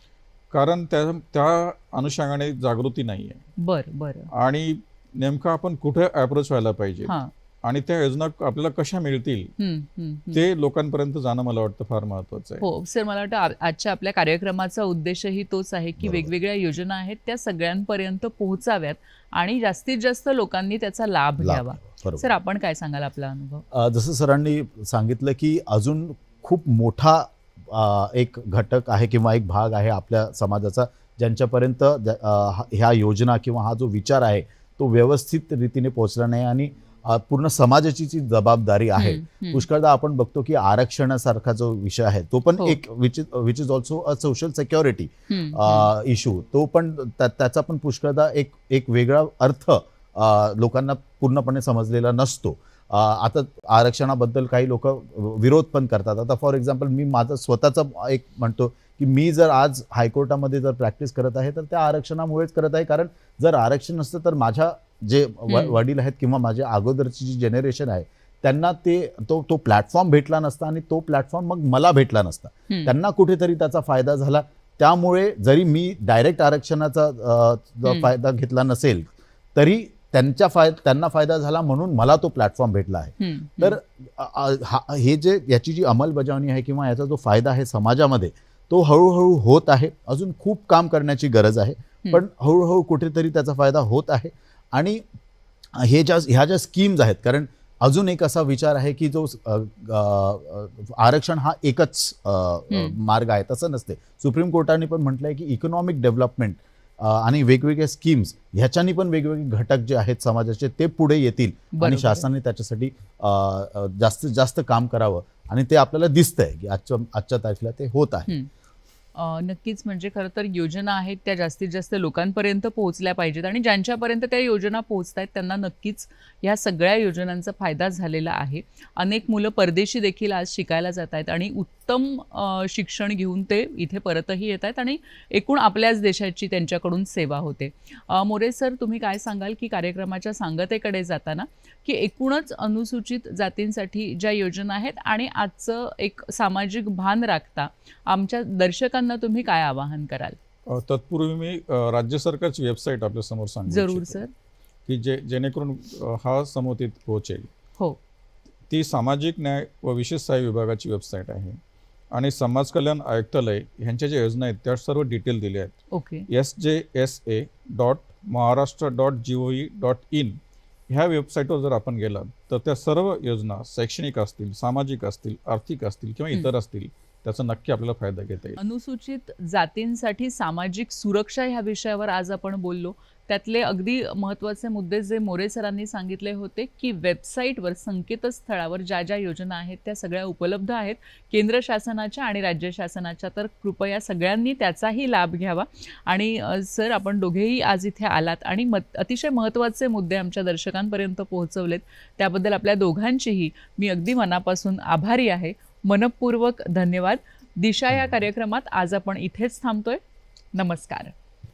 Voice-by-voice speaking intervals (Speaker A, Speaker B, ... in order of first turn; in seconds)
Speaker A: 0.5-3.5, 4.3-9.5, 10.3-12.7, 150.7-154.2, 154.9-157.5, 158.7-161.6, 162.1-165.8, 166.3-178.6
Speaker B: 3.6-4.3, 9.6-10.4, 12.6-23.6, 39.0-39.6, 45.3-45.9, 65.5-65.8, 77.8-78.1, 83.2-83.8, 102.7-103.0, 111.7-112.3, 119.2-150.4, 153.7-154.3, 165.9-166.3, 178.6-210.0, 210.6-211.1
Speaker C: 16.0-16.3, 21.4-22.3, 23.7-95.0, 95.7-118.3